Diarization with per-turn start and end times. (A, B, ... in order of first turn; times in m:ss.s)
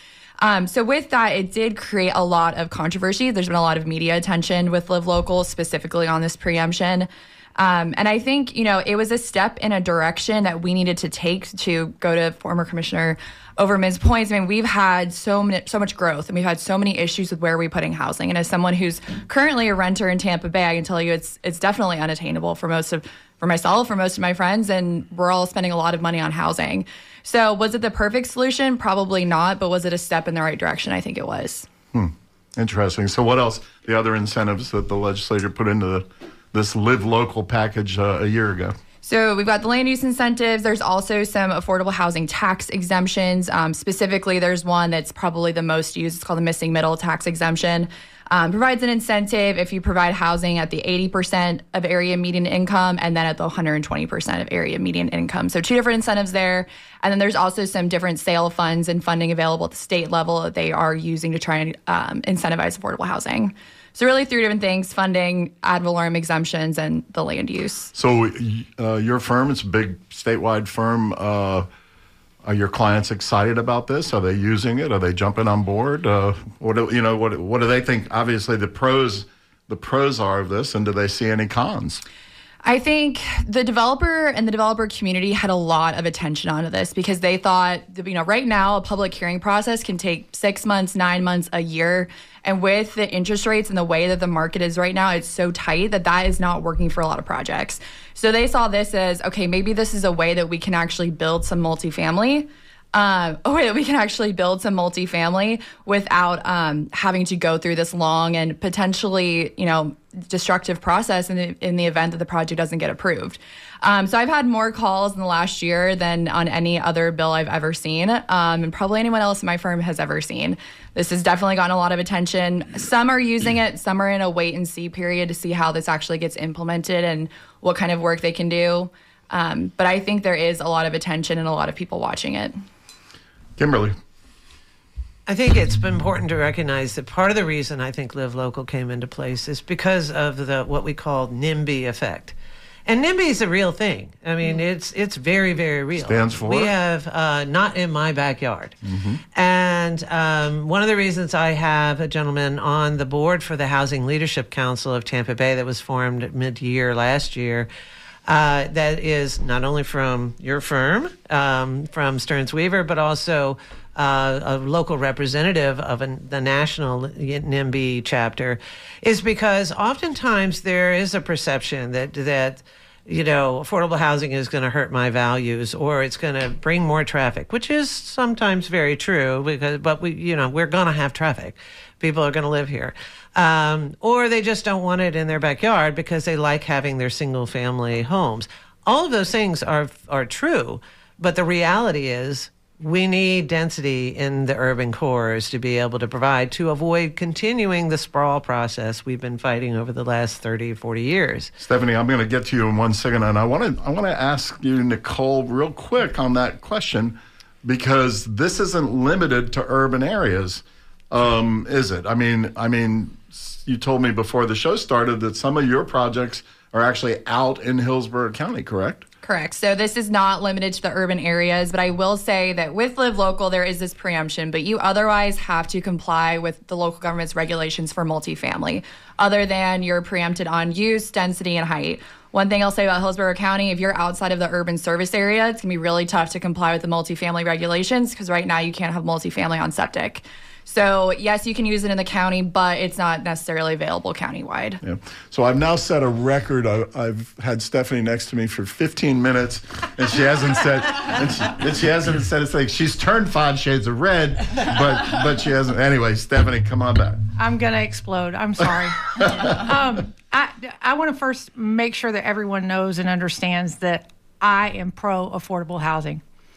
0:00.4-0:31.7 A
0:31.9-0:38.8 B
0:39.0-1:07.9 A
1:07.9-1:11.7 B
1:12.4-1:22.0 B
1:22.6-2:12.5 A
2:13.6-2:14.0 B
2:15.3-2:22.3 C
2:22.9-2:28.8 C
2:26.0-2:26.7 B
2:28.8-2:29.2 B
2:29.3-2:37.7 C
2:38.3-3:21.5 C
3:21.6-3:39.0 B
3:39.2-4:04.8 A
4:04.8-4:17.2 B
4:17.4-4:26.2 D
4:19.2-4:19.6 B